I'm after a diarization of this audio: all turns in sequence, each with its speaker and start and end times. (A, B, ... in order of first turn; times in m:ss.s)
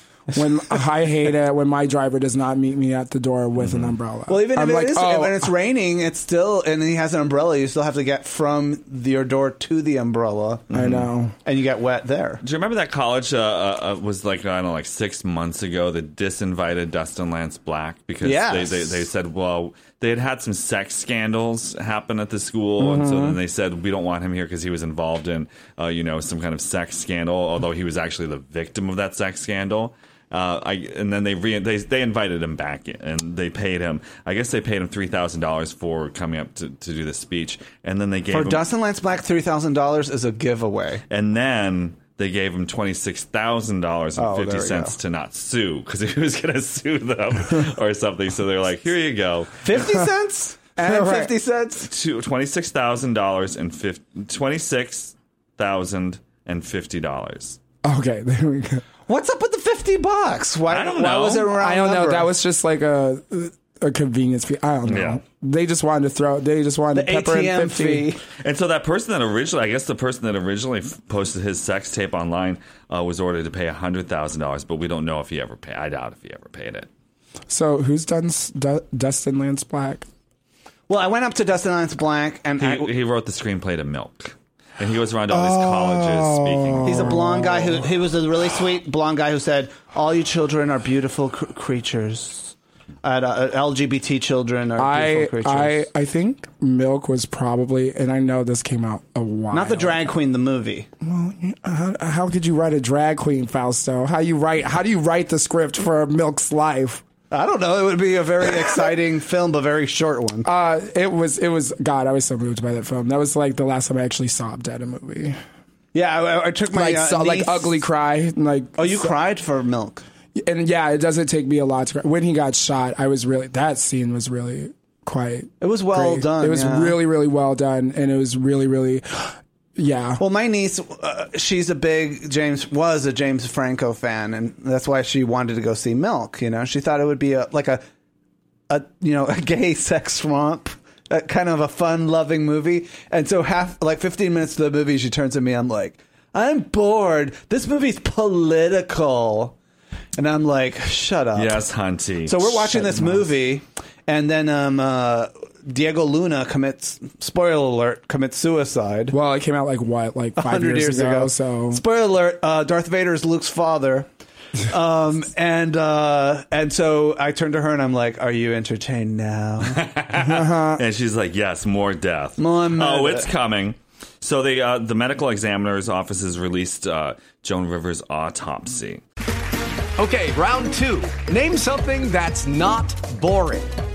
0:00.3-0:05.5 A
0:03.6-0:04.0 B
0:04.3-0:10.7 C
0:10.7-0:11.1 B
0:10.7-0:11.4 A
0:11.4-0:12.4 C
0:12.4-0:38.6 B
0:18.2-0:19.0 C
0:22.8-0:23.4 A
0:38.3-0:41.0 C
0:41.1-0:49.6 B
0:44.2-0:45.0 C
0:49.6-0:51.9 C
0:50.8-0:51.3 A
0:51.8-0:57.6 B
0:57.8-0:58.8 A
0:59.1-1:02.3 C
1:00.7-1:01.5 B
1:01.5-1:08.1 A
1:04.9-1:05.2 B
1:06.9-1:08.2 C
1:08.4-1:16.9 B
1:17.5-1:20.1 A
1:20.9-1:22.9 C
1:22.6-1:27.2 B
1:25.3-1:27.9 A
1:26.8-1:35.8 C
1:34.8-1:40.0 A
1:39.5-1:40.9 C
1:41.0-1:47.0 A
1:47.3-1:50.5 C
1:50.4-1:55.4 A
1:55.9-1:57.8 C
1:56.7-1:59.1 A
1:58.8-2:00.0 C
2:00.4-2:10.2 A
2:05.6-2:07.0 C
2:10.2-2:17.8 C
2:18.7-2:29.6 C
2:30.2-2:31.6 C
2:31.3-2:33.0 B
2:32.3-2:39.2 C
2:39.1-2:41.8 A
2:40.4-2:44.1 C
2:44.6-2:49.8 C
2:49.7-2:59.0 B
2:50.2-2:50.8 A
2:52.4-2:53.3 C
3:00.0-3:03.7 D